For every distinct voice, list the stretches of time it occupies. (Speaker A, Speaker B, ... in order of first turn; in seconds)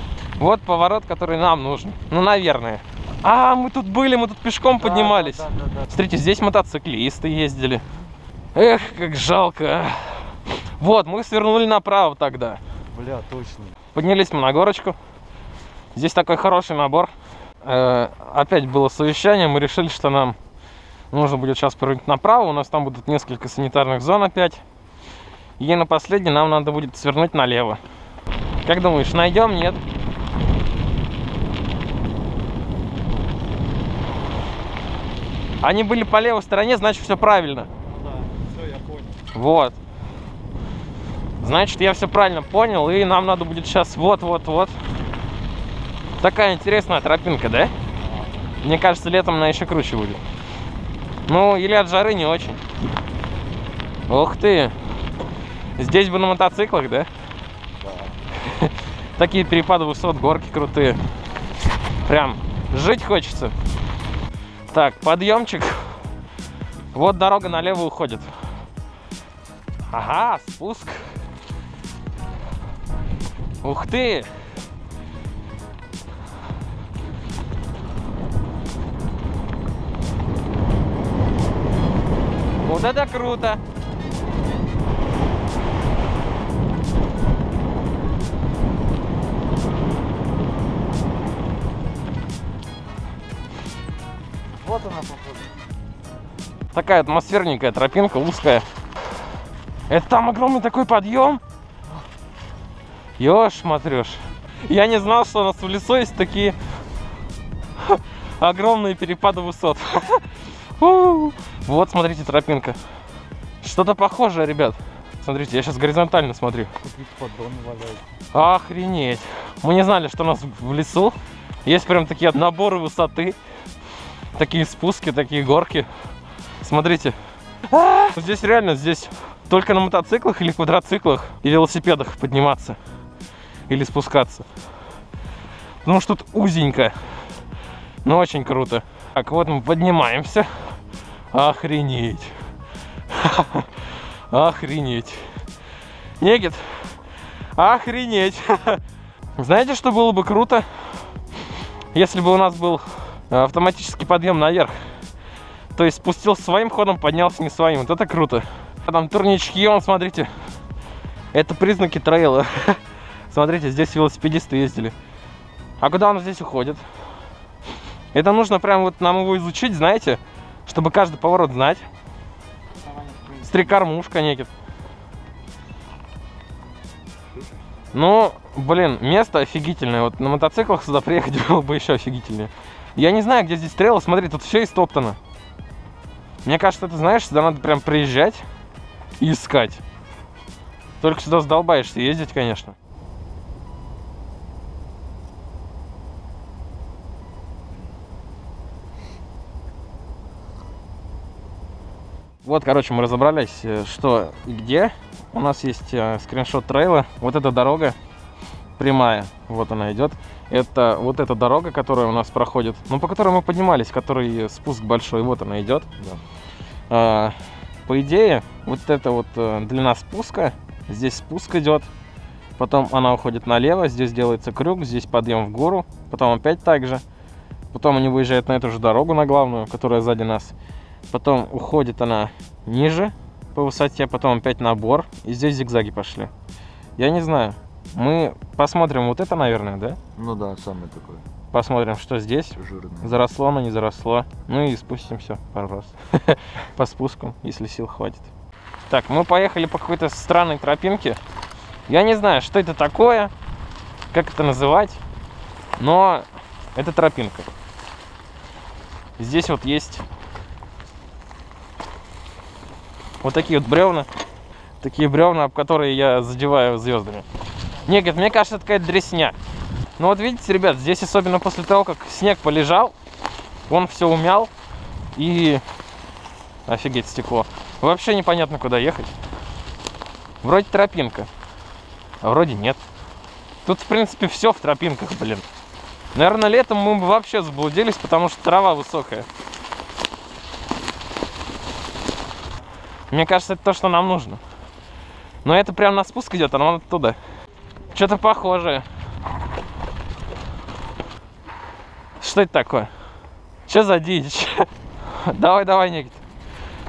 Speaker A: 0.4-7.8, 8.6-12.6, 13.9-15.0, 15.9-17.1, 17.6-20.4, 21.1-24.6, 25.6-27.8, 28.6-29.8, 35.6-37.7, 39.3-39.8, 41.4-44.8, 46.2-47.7, 48.6-50.2, 51.3-52.6, 54.1-54.7, 55.8-57.1, 58.4-61.0, 62.1-63.5, 64.7-65.9, 66.9-68.3, 69.9-71.1, 73.6-74.3, 82.6-83.6, 96.7-98.7, 99.9-101.4, 103.2-106.6, 107.8-110.3, 110.8-112.8, 113.6-116.7, 118.3-123.4, 124.4-125.9, 126.6-127.2, 127.7-132.8, 133.7-134.5, 135.8-136.9, 138.0-140.5, 141.3-142.3, 143.1-143.7, 144.3-145.2, 146.2-146.9, 147.6-148.8, 149.4-150.7, 151.9-154.8, 155.7-160.3, 161.3-164.9, 165.8-166.8, 168.1-171.9, 173.4-174.5, 177.9-185.2, 186.4-188.4, 189.2-189.8, 191.0-192.8, 202.4-208.0, 208.8-215.9, 216.9-217.4, 217.9-221.9, 222.6-227.0, 227.7-230.5, 231.1-236.3, 237.0-240.0, 241.5-248.3, 248.9-251.2, 251.9-253.3, 254.1-255.0, 255.8-257.5, 259.2-260.1, 263.2-264.1, 264.8-267.3, 267.9-269.4, 270.0-272.9, 273.7-274.5, 275.2-275.6, 276.7-279.1, 280.4-281.3, 282.2-282.8, 283.6-285.5, 286.1-289.3, 293.1-294.4, 295.4-297.2, 297.9-298.9, 302.2-302.9, 303.7-306.2
Speaker B: 4.8-5.9, 12.9-13.8, 37.8-39.2, 48.0-48.3, 57.8-58.2, 94.6-95.5, 116.8-118.1, 240.2-241.2, 242.6-243.2